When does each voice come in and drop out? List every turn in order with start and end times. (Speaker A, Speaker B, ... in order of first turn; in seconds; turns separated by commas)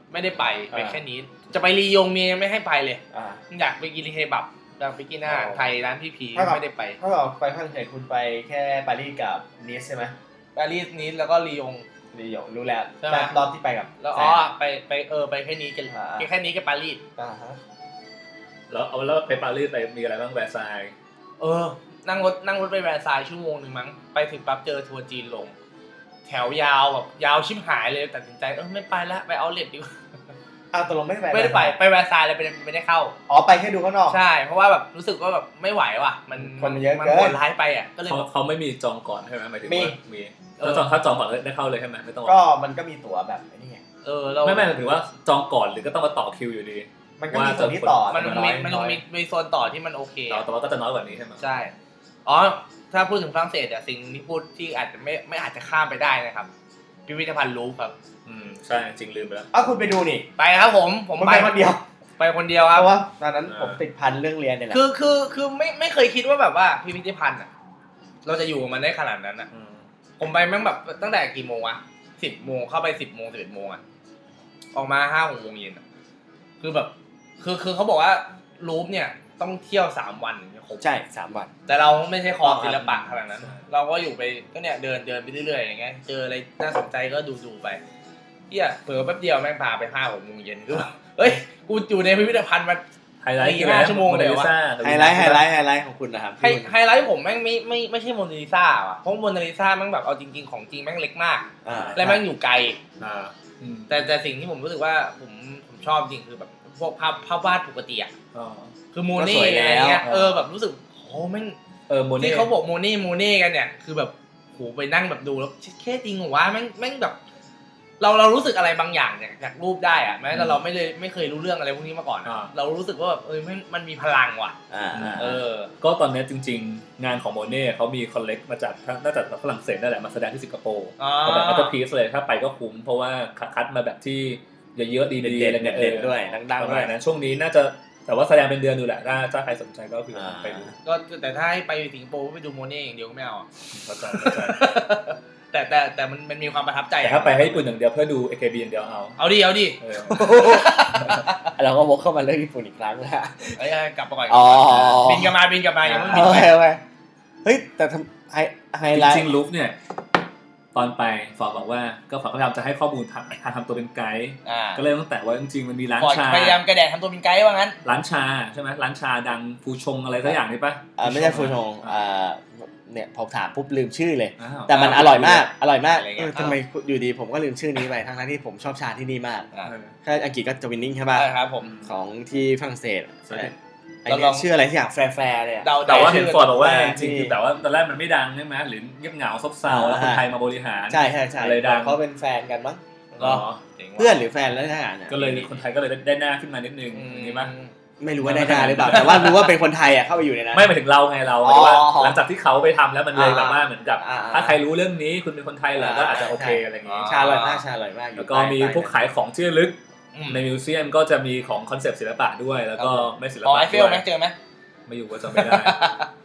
Speaker A: 0.1-7.0, Speaker B: 0.7-1.0, Speaker B: 3.1-3.4, Speaker B: 5.3-5.7, Speaker B: 6.3-10.2, Speaker A: 10.6-11.8, Speaker B: 12.1-14.4, Speaker A: 13.0-13.4, Speaker A: 14.0-17.0, Speaker B: 15.9-16.3, Speaker B: 17.2-17.6, Speaker C: 18.7-20.9, Speaker A: 21.4-25.6, Speaker A: 26.3-30.0, Speaker B: 30.7-31.8, Speaker A: 31.3-33.1, Speaker B: 33.3-34.2, Speaker A: 34.1-38.3, Speaker B: 36.4-37.4, Speaker C: 38.1-42.4, Speaker B: 39.7-40.0, Speaker A: 40.6-40.9, Speaker B: 42.3-43.8, Speaker A: 44.0-44.7, Speaker C: 44.4-48.8, Speaker B: 47.2-49.0, Speaker A: 48.1-50.4, Speaker C: 50.3-51.4, Speaker A: 51.4-51.7, Speaker A: 52.3-56.5, Speaker A: 57.1-58.0, Speaker C: 58.3-59.5, Speaker B: 59.5-60.3, Speaker A: 60.4-61.5, Speaker B: 61.2-61.8, Speaker A: 62.2-62.9, Speaker B: 62.7-64.8, Speaker C: 63.5-63.8, Speaker A: 64.7-67.5, Speaker A: 68.2-69.5, Speaker C: 69.5-69.8, Speaker A: 70.2-73.8, Speaker A: 74.7-75.8, Speaker A: 76.6-80.8, Speaker B: 80.8-81.5, Speaker A: 81.7-87.8, Speaker B: 82.4-82.9, Speaker A: 88.5-92.8, Speaker C: 93.2-95.4, Speaker A: 93.4-94.5, Speaker B: 94.8-96.7, Speaker A: 96.4-102.8, Speaker B: 101.7-102.2, Speaker C: 101.7-102.0, Speaker C: 103.0-104.0, Speaker A: 103.9-108.1, Speaker C: 108.3-108.7, Speaker A: 108.9-111.6, Speaker B: 109.2-110.0, Speaker C: 110.0-110.5, Speaker C: 111.9-112.5, Speaker A: 112.2-117.2, Speaker A: 118.0-124.6, Speaker C: 120.3-120.6, Speaker C: 122.2-122.5, Speaker B: 124.7-125.4, Speaker C: 124.9-140.7, Speaker A: 125.2-125.7, Speaker A: 131.0-131.7, Speaker B: 135.2-136.9, Speaker B: 140.1-140.7, Speaker A: 140.8-143.5, Speaker C: 143.7-144.7, Speaker A: 144.1-147.7, Speaker C: 147.0-149.2, Speaker A: 149.2-151.4, Speaker C: 149.8-151.2, Speaker B: 150.1-150.8, Speaker B: 151.5-153.6, Speaker A: 153.6-156.5, Speaker B: 154.3-155.3, Speaker C: 155.9-156.3, Speaker B: 156.1-156.8, Speaker B: 157.4-159.3, Speaker C: 158.9-159.8, Speaker C: 160.7-166.6, Speaker A: 164.5-164.8, Speaker A: 166.0-167.8, Speaker C: 167.8-171.9, Speaker B: 171.0-179.5, Speaker C: 174.4-175.5, Speaker A: 174.7-175.4, Speaker A: 175.9-176.6, Speaker C: 179.7-179.9, Speaker B: 180.0-181.3, Speaker A: 181.2-181.7, Speaker B: 181.8-183.5, Speaker C: 183.3-183.5, Speaker B: 184.1-187.4, Speaker A: 184.1-184.5, Speaker A: 185.6-186.6, Speaker C: 185.8-192.0, Speaker B: 189.7-190.2, Speaker B: 190.9-193.4, Speaker C: 193.2-193.6, Speaker A: 193.2-194.2, Speaker B: 194.0-195.5, Speaker C: 195.1-197.5, Speaker A: 196.9-197.7, Speaker B: 198.0-200.7, Speaker C: 198.2-199.5, Speaker A: 198.9-199.4, Speaker C: 200.5-207.2, Speaker B: 201.4-202.2, Speaker B: 203.1-204.6, Speaker B: 205.8-208.9, Speaker A: 206.9-207.6, Speaker C: 208.2-209.8, Speaker A: 210.1-210.4, Speaker C: 210.3-214.0, Speaker A: 212.8-214.3, Speaker C: 214.9-215.8, Speaker A: 215.3-216.1